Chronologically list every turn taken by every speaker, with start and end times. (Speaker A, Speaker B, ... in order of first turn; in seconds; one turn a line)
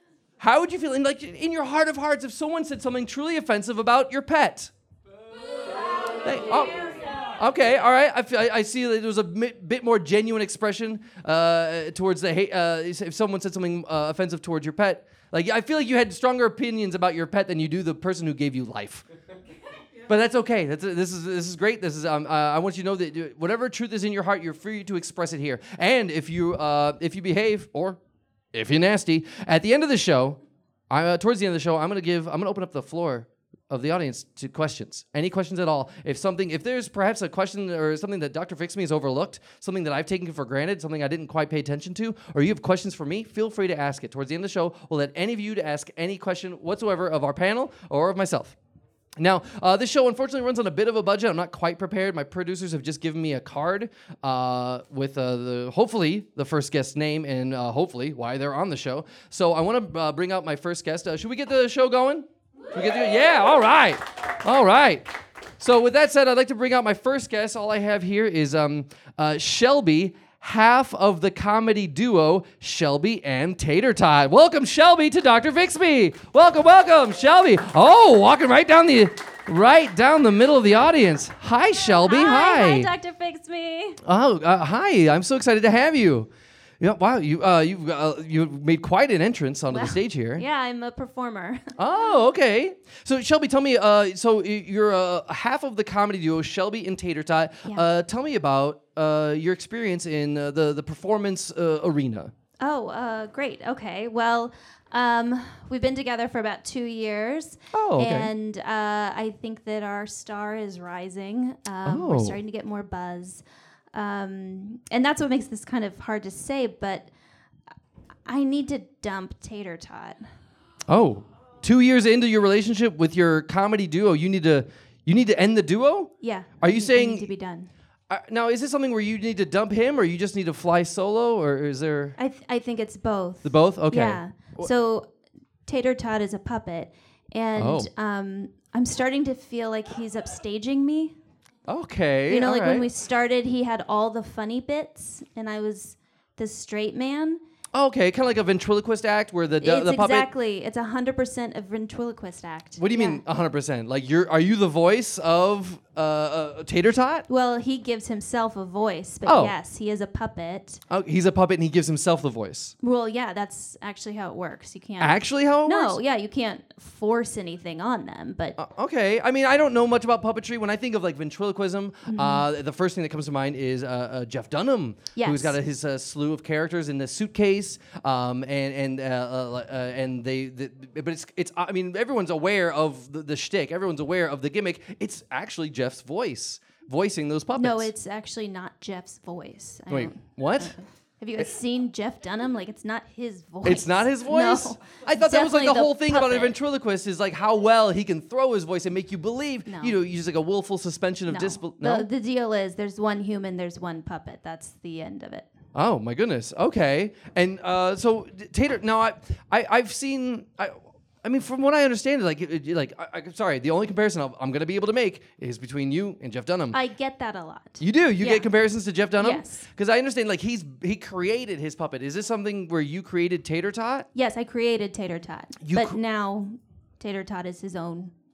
Speaker A: 0.4-4.7
Speaker A: 6.2-19.0
Speaker A: 20.0-28.0
Speaker A: 28.5-48.5
Speaker A: 49.2-82.9
Speaker B: 82.0-84.0
Speaker A: 84.0-90.4
Speaker B: 89.7-91.8
Speaker A: 91.8-102.3
Speaker B: 102.6-113.4
Speaker A: 107.7-108.3
Speaker A: 111.8-112.4
Speaker B: 113.9-117.1
Speaker B: 118.2-120.2
Speaker A: 120.9-127.3
Speaker B: 126.2-127.7
Speaker A: 128.1-132.2
Speaker B: 132.2-135.1
Speaker A: 133.4-134.7
Speaker B: 135.7-141.2
Speaker A: 137.6-137.9
Speaker A: 141.7-142.8
Speaker B: 142.3-147.4
Speaker A: 147.7-150.3
Speaker B: 149.6-153.2
Speaker A: 152.8-157.2
Speaker B: 157.3-160.8
Speaker A: 159.2-159.5
Speaker A: 160.9-162.7
Speaker B: 162.8-168.6
Speaker A: 165.0-166.0
Speaker A: 168.6-187.9
Speaker B: 172.1-172.5
Speaker B: 175.1-175.6
Speaker B: 187.6-196.6
Speaker A: 189.9-190.8
Speaker A: 193.6-202.1
Speaker B: 199.7-199.9
Speaker B: 201.3-205.5
Speaker A: 205.7-216.8
Speaker B: 216.7-218.5
Speaker A: 217.8-224.1
Speaker B: 219.2-219.7
Speaker B: 224.1-228.1
Speaker A: 225.6-226.0